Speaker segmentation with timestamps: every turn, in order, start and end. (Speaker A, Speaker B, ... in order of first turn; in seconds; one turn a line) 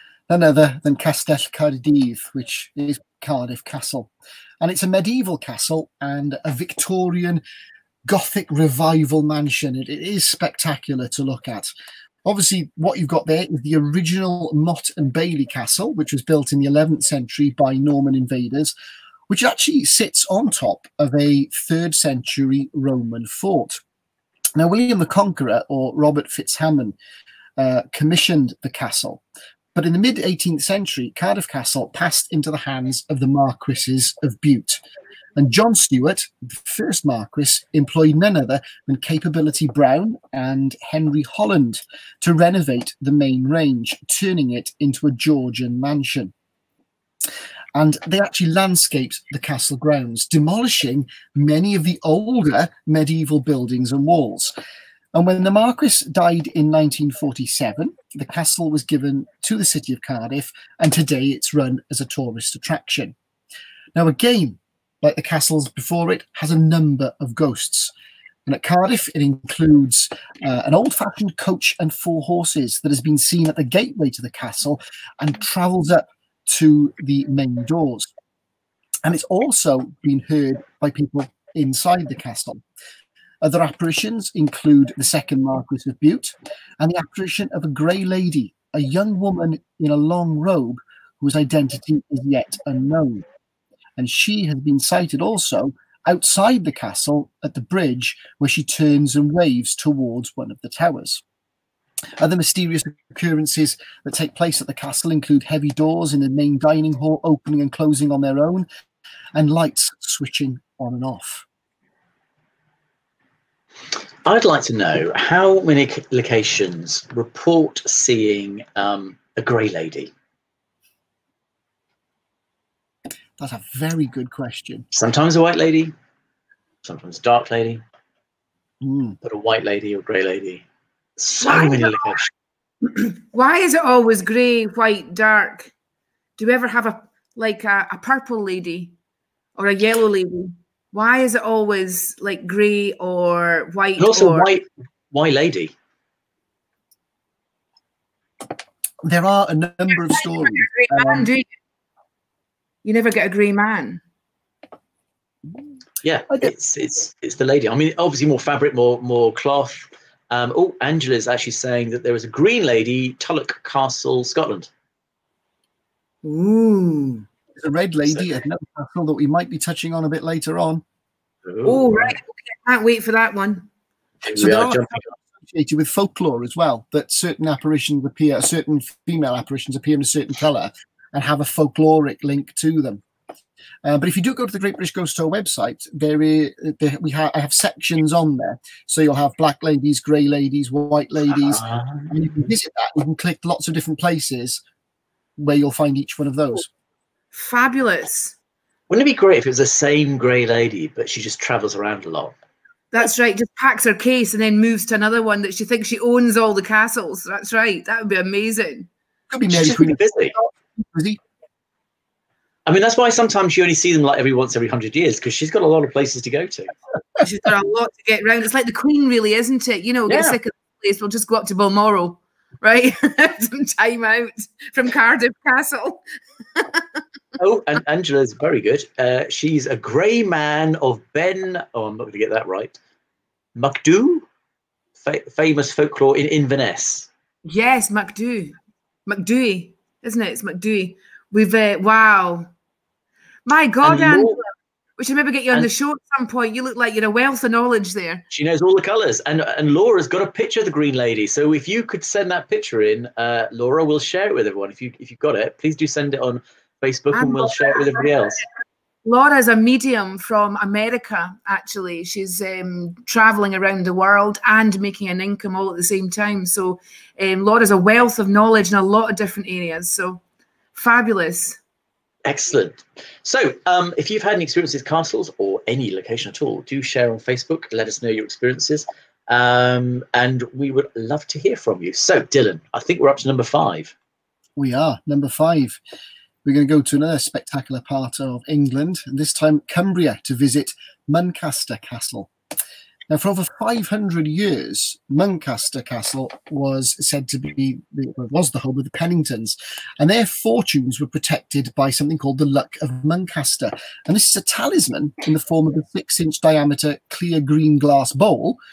Speaker A: 0.3-7.4
Speaker A: 8.1-11.7
Speaker A: 12.2-18.7
Speaker A: 19.3-23.8
Speaker A: 24.6-26.9
Speaker A: 27.6-29.2
Speaker A: 29.8-34.8
Speaker A: 35.4-46.3
Speaker A: 47.8-54.5
Speaker A: 55.1-63.1
Speaker A: 63.9-67.9
Speaker A: 68.5-78.1
Speaker A: 79.0-82.6
Speaker A: 83.4-93.2
Speaker A: 94.0-101.2
Speaker A: 102.2-108.7
Speaker A: 109.3-111.5
Speaker B: 114.2-120.1
Speaker A: 123.4-124.9
Speaker B: 124.9-125.9
Speaker B: 126.8-127.8
Speaker A: 128.8-129.2
Speaker B: 129.2-130.6
Speaker B: 131.2-132.3
Speaker C: 131.4-132.0
Speaker C: 132.9-135.7
Speaker C: 136.4-138.9
Speaker C: 139.6-144.5
Speaker B: 144.0-145.7
Speaker A: 149.1-151.3
Speaker C: 149.9-151.5
Speaker C: 152.8-154.0
Speaker B: 156.0-164.7
Speaker C: 166.2-167.2
Speaker A: 167.6-170.8
Speaker B: 171.4-172.2
Speaker C: 171.6-173.7
Speaker B: 174.2-175.1
Speaker A: 174.4-183.0
Speaker A: 183.8-194.6
Speaker B: 191.4-192.1
Speaker A: 195.4-196.7
Speaker C: 197.3-198.4
Speaker B: 198.9-202.3
Speaker C: 202.9-208.9
Speaker A: 209.3-211.2
Speaker B: 209.5-210.3
Speaker B: 212.7-216.7
Speaker C: 217.2-226.0
Speaker B: 220.1-220.4
Speaker C: 226.6-227.0
Speaker B: 227.4-232.8
Speaker B: 233.6-234.3
Speaker B: 235.0-237.1
Speaker C: 237.4-242.5
Speaker C: 243.4-244.4
Speaker B: 243.8-244.4
Speaker C: 245.0-248.2
Speaker B: 248.3-258.4
Speaker C: 257.1-258.0
Speaker C: 259.1-270.2
Speaker C: 270.8-271.6
Speaker B: 272.2-283.9
Speaker A: 284.6-285.8
Speaker A: 286.4-292.3
Speaker A: 293.1-308.6